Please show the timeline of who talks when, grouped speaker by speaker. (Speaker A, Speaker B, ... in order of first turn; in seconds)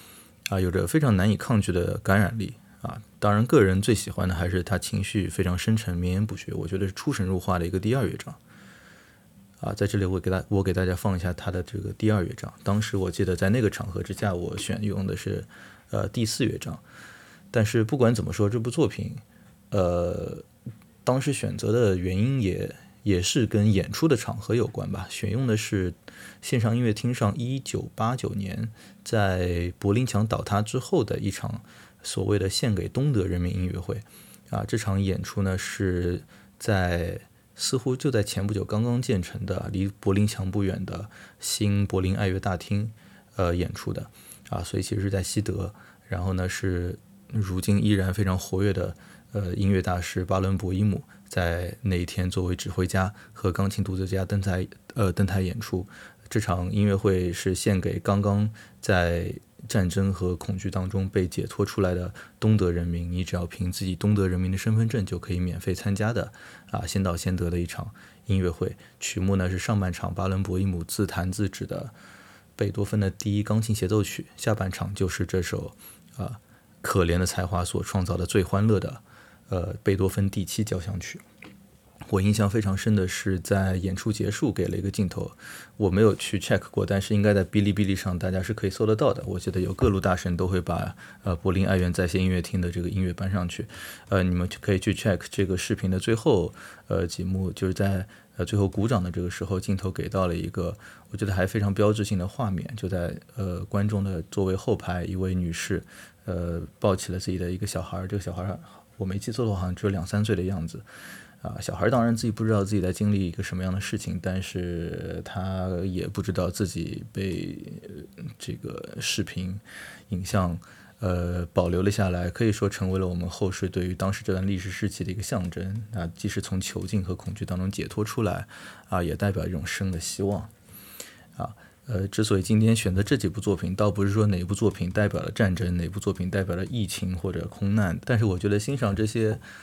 Speaker A: 0.5-8.4, 9.6-16.8, 17.5-20.4, 21.0-71.9, 72.5-81.2, 82.0-110.8, 111.4-130.5, 131.3-139.4